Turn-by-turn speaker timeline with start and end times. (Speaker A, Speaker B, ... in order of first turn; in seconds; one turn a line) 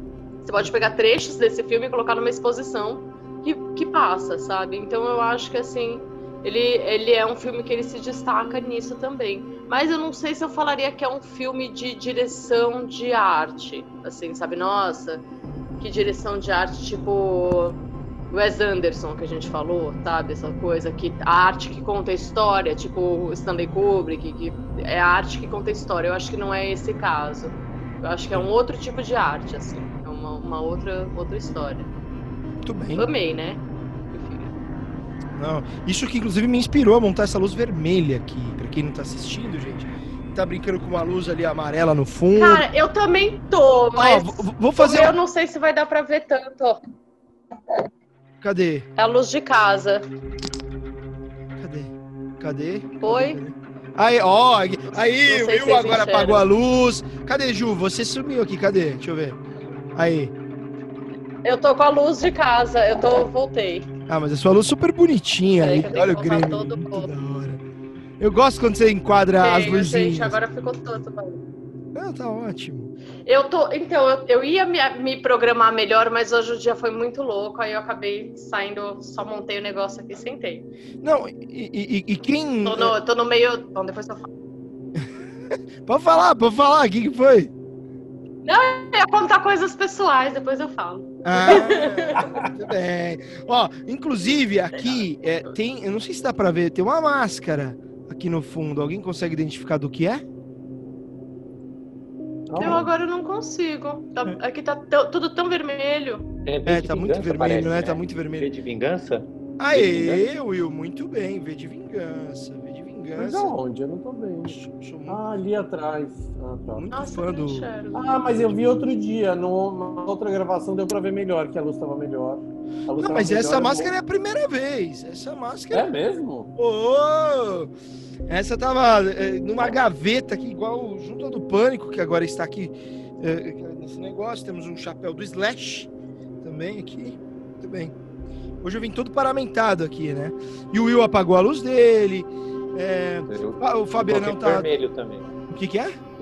Speaker A: 0.4-15.2
Speaker B: 0.6-0.9
Speaker A: 15.8-17.8
Speaker A: 18.3-31.9
Speaker B: 32.6-33.0
Speaker A: 33.0-34.5
Speaker B: 35.3-42.7
Speaker A: 42.4-46.8
Speaker B: 44.0-45.1
Speaker B: 48.4-48.9
Speaker A: 49.0-50.0
Speaker B: 51.6-59.4
Speaker A: 53.0-53.4
Speaker A: 55.2-56.5
Speaker B: 59.9-60.3
Speaker A: 61.4-63.9
Speaker B: 64.1-67.6
Speaker A: 65.6-67.1
Speaker B: 68.2-70.4
Speaker A: 69.4-71.4
Speaker B: 71.9-72.9
Speaker A: 73.2-80.7
Speaker B: 81.0-82.9
Speaker A: 82.6-84.3
Speaker B: 85.8-87.5
Speaker A: 88.4-92.2
Speaker B: 91.2-100.2
Speaker C: 92.2-92.5
Speaker C: 102.5-102.9
Speaker A: 102.6-106.2
Speaker D: 106.4-110.3
Speaker B: 106.7-108.5
Speaker B: 109.6-113.5
Speaker C: 113.2-116.8
Speaker B: 114.5-115.2
Speaker B: 116.7-117.7
Speaker A: 116.9-118.1
Speaker C: 117.9-123.9
Speaker B: 118.3-118.9
Speaker B: 123.0-125.9
Speaker C: 125.7-126.5
Speaker B: 126.5-127.7
Speaker B: 128.3-135.9
Speaker B: 136.4-137.9
Speaker B: 138.6-144.7
Speaker D: 143.3-145.3
Speaker B: 145.5-145.9